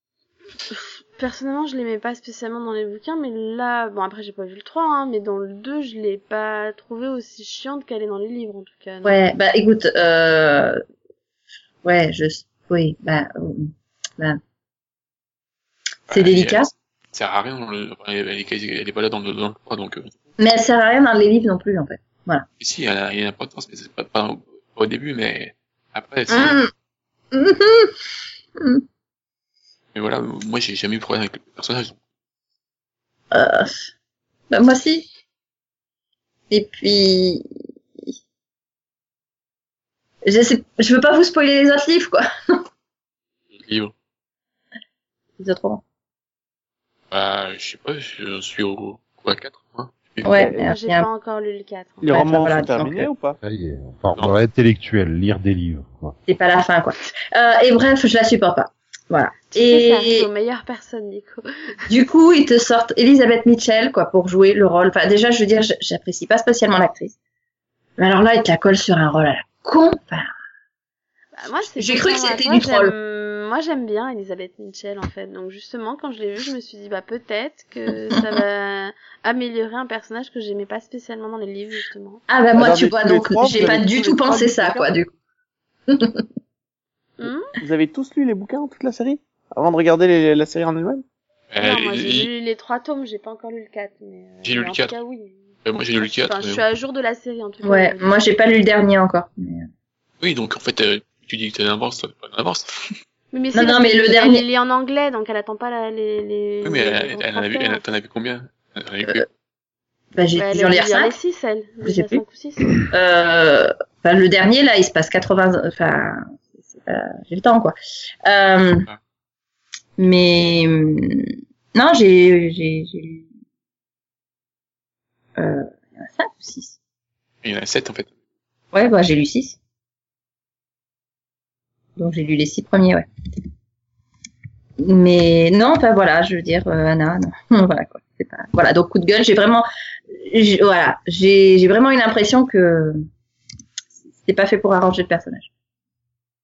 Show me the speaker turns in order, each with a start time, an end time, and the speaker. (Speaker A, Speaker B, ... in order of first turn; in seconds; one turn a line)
Speaker A: 0.7-9.2
Speaker B: 9.0-10.8
Speaker B: 11.8-14.4
Speaker C: 16.1-20.1
Speaker B: 16.1-16.7
Speaker B: 20.4-22.4
Speaker C: 22.6-26.6
Speaker B: 26.3-26.7
Speaker B: 27.3-27.9
Speaker B: 28.6-28.8
Speaker C: 29.9-31.9
Speaker B: 33.3-33.9
Speaker B: 34.5-35.0
Speaker B: 36.5-37.4
Speaker B: 40.2-42.6
Speaker C: 43.5-43.9
Speaker B: 45.4-45.8
Speaker C: 47.1-50.4
Speaker B: 50.2-51.1
Speaker A: 50.5-52.2
Speaker D: 52.0-53.4
Speaker B: 52.1-53.0
Speaker E: 53.4-56.1
Speaker B: 56.3-60.3
Speaker A: 59.5-61.4
Speaker B: 61.9-67.1
Speaker B: 68.0-70.3
Speaker A: 71.3-82.2
Speaker B: 71.6-72.9
Speaker B: 82.3-85.1
Speaker D: 82.5-84.9
Speaker B: 85.9-86.2
Speaker A: 87.2-87.5
Speaker D: 87.6-91.0
Speaker C: 91.5-92.3
Speaker A: 91.6-95.4
Speaker C: 94.4-95.0
Speaker C: 95.6-96.6
Speaker A: 96.0-98.1
Speaker B: 97.6-99.7
Speaker C: 100.2-102.7
Speaker A: 103.3-107.8
Speaker B: 103.5-104.4
Speaker C: 106.6-109.2
Speaker B: 110.1-111.1
Speaker A: 110.3-112.8
Speaker B: 111.8-112.2
Speaker B: 112.8-116.3
Speaker B: 116.8-118.9
Speaker B: 120.0-123.2
Speaker B: 125.4-126.8
Speaker C: 127.4-128.1
Speaker B: 128.7-129.6
Speaker B: 132.0-133.1
Speaker B: 134.8-139.7
Speaker B: 140.2-143.0
Speaker B: 144.2-145.5